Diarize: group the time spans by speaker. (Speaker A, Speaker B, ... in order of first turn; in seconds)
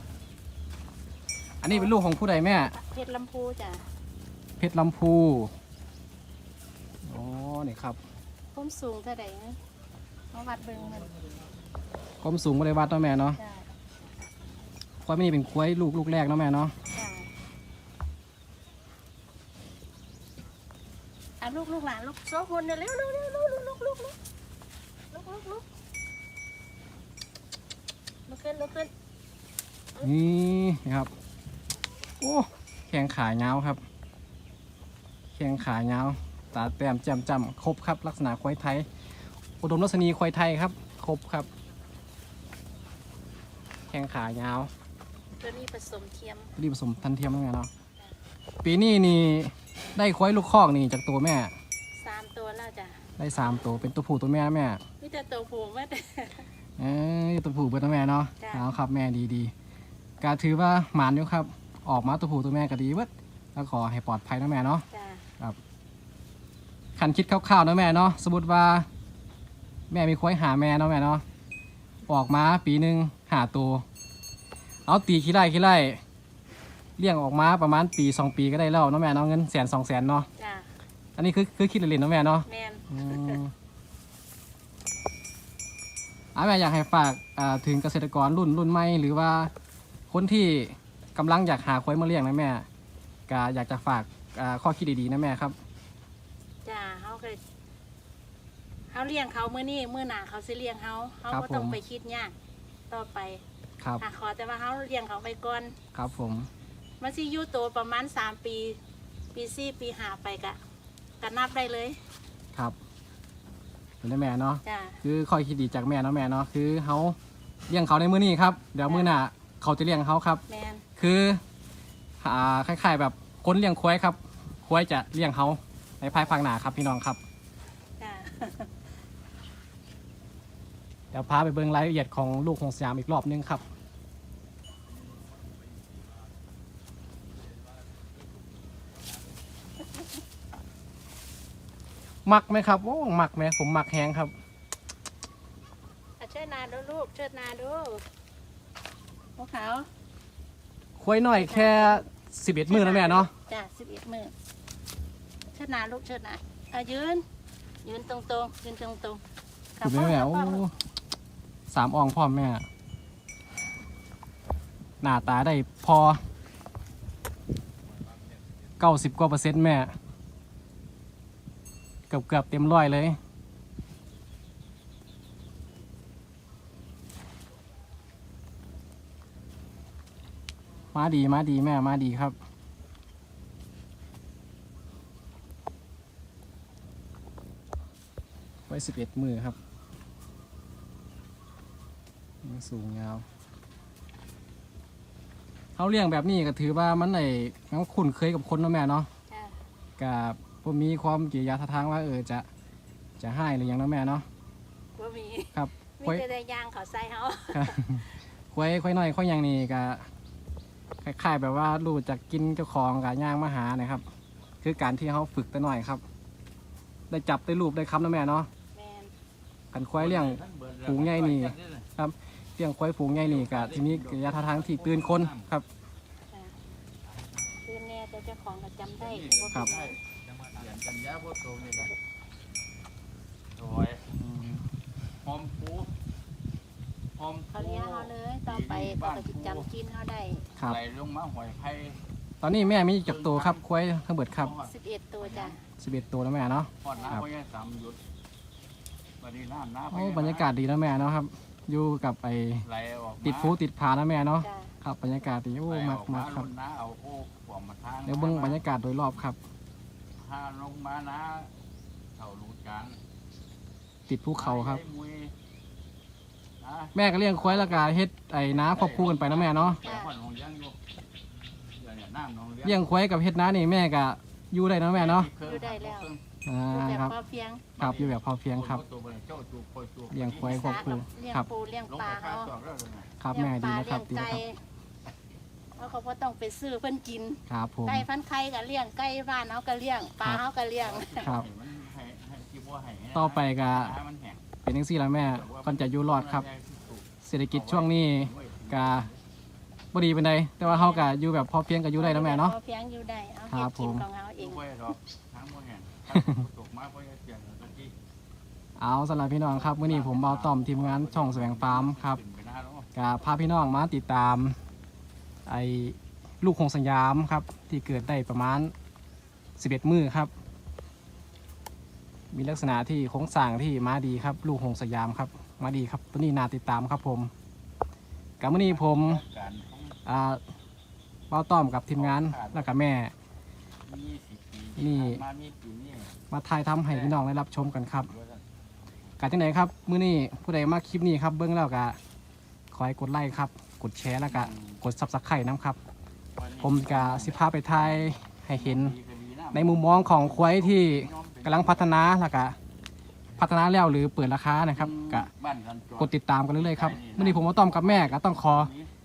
Speaker A: 1.6-2.8, 4.6-5.5, 7.0-8.0, 12.2-13.4, 15.1-16.7, 30.0-31.1, 32.2-33.8, 35.4-38.9, 39.6-41.5, 43.9-44.7, 46.6-47.7, 48.6-51.5, 53.2-54.8, 56.8-59.5, 60.2-64.9, 67.0-68.9, 69.9-71.2, 72.1-73.8, 74.9-76.0, 77.0-80.3, 81.2-83.5, 86.3-89.5, 90.1-92.7, 93.3-95.6, 101.3-101.8, 105.9-106.5, 114.0-117.2, 117.7-120.4, 121.0-121.4, 122.2-127.2, 131.1-133.7, 142.2-144.3, 151.0-153.3, 159.8-160.8, 161.7-162.7, 165.0-166.2, 168.8-169.9, 172.1-173.2, 180.9-182.3, 188.7-189.6, 192.4-193.2, 195.8-199.1, 200.0-202.5, 203.2-204.3, 205.6-206.2, 207.5-210.1, 211.0-214.1, 214.6-216.0, 217.1-218.5, 219.7-225.7, 234.2-234.7, 242.4-244.5, 245.8-247.3, 249.9-252.7, 253.2-256.5, 258.1-259.4, 264.1-264.8, 266.9-269.8, 272.6-275.3, 276.5-277.1, 277.8-278.8, 280.1-281.5, 283.2-284.4, 287.5-288.1, 291.2-291.5, 293.1-294.0, 294.6-296.5, 297.2-299.1, 299.9-302.6, 303.5-304.1, 306.1-306.4, 308.8-312.2, 312.9-314.6, 315.5-318.7, 319.6-320.3, 322.3-327.3, 328.4-329.2, 330.1-330.4, 331.3-333.1, 334.8-335.2, 336.3-338.1, 339.2-342.0, 342.7-345.8, 346.6-349.0, 349.5-352.6, 353.4-355.3, 356.0-358.7
Speaker B: 1.7-1.9, 2.7-3.9, 8.5-9.6, 10.3-11.2, 13.4-13.7, 16.9-17.3, 21.4-24.2, 25.1-25.6, 28.3-28.9, 45.4-46.5, 51.9-53.0, 55.0-56.5, 58.4-58.7, 64.9-65.2, 80.4-80.7, 82.5-83.4, 96.7-97.4, 98.9-102.3, 102.9-103.4, 104.0-105.8, 107.0-108.8, 109.3-110.6, 111.2-112.0, 114.6-115.0, 118.9-119.1, 120.5-120.8, 128.0-128.7, 146.2-148.0, 149.4-149.9, 151.3-152.0, 152.7-154.3, 155.5-157.2, 157.8-159.2, 159.8-160.7, 199.3-199.6, 204.9-208.1, 218.7-219.1, 226.3-226.6, 227.6-230.0, 237.5-240.5, 244.6-245.6, 246.9-247.2, 254.4-254.7, 269.8-270.1, 275.4-276.1, 276.7-277.6, 280.4-282.5, 283.3-284.6, 285.8-291.3, 300.6-301.1, 302.0-304.6
Speaker C: 219.9-221.9, 223.2-225.5, 229.0-231.9, 233.6-234.1, 235.2-235.9, 237.2-239.7, 240.6-242.0, 242.7-243.6, 244.3-245.6, 246.8-248.0, 249.2-250.5, 252.6-253.6, 255.7-258.6, 260.2-261.5, 262.2-263.0, 264.3-265.3, 266.6-267.9, 268.5-270.8, 271.7-272.9, 274.9-276.2, 277.8-281.0, 281.9-283.1, 290.8-294.4, 295.2-299.2, 304.4-307.9, 309.5-312.9, 328.4-330.0, 332.0-332.7, 333.9-336.1, 336.9-337.2, 337.9-338.4, 344.3-344.8, 346.4-352.0, 354.7-358.9